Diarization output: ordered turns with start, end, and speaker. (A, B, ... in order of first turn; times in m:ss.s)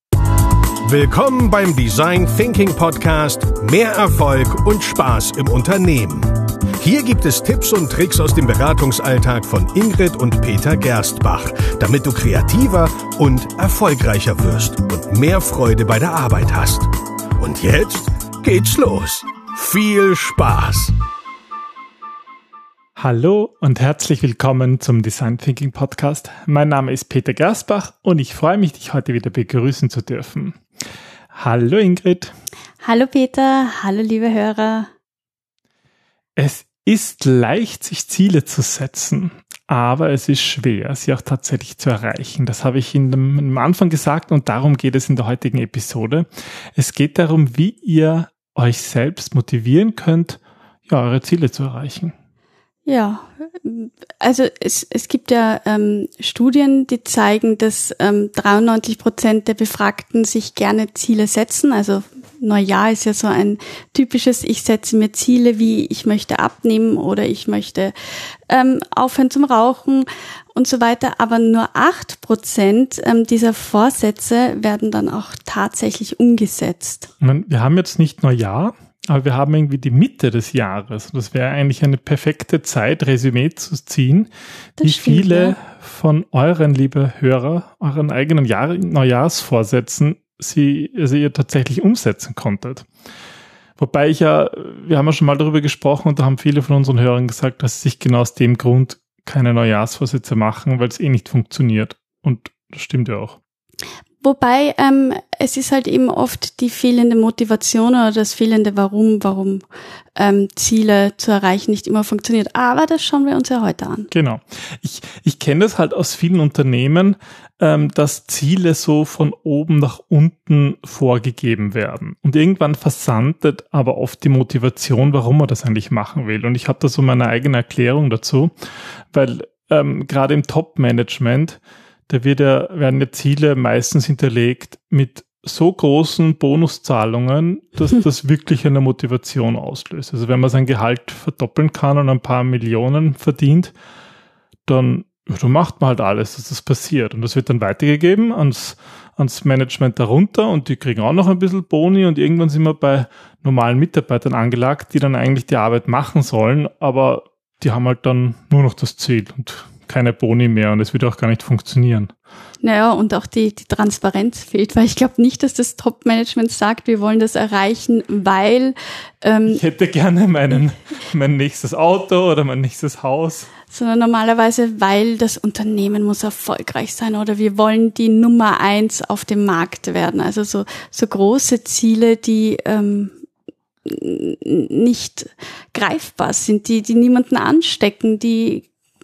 0:00.8-0:20.9 A
0:23.0-0:30.6 B
0:31.3-0:32.3 B
0:32.8-0:34.9 C
0:36.4-0:52.1 B
0:52.8-1:07.9 C
1:08.5-1:17.1 C
1:17.2-1:32.9 B
1:24.8-1:25.6 C
1:33.8-1:43.4 B
1:44.2-1:49.6 C
1:50.2-1:54.1 C
1:54.1-2:08.5 B
2:09.1-2:23.7 B
2:24.7-2:42.1 B
2:42.6-2:49.6 C
2:49.5-2:53.5 B
2:53.7-3:03.2 C
3:03.8-3:08.7 C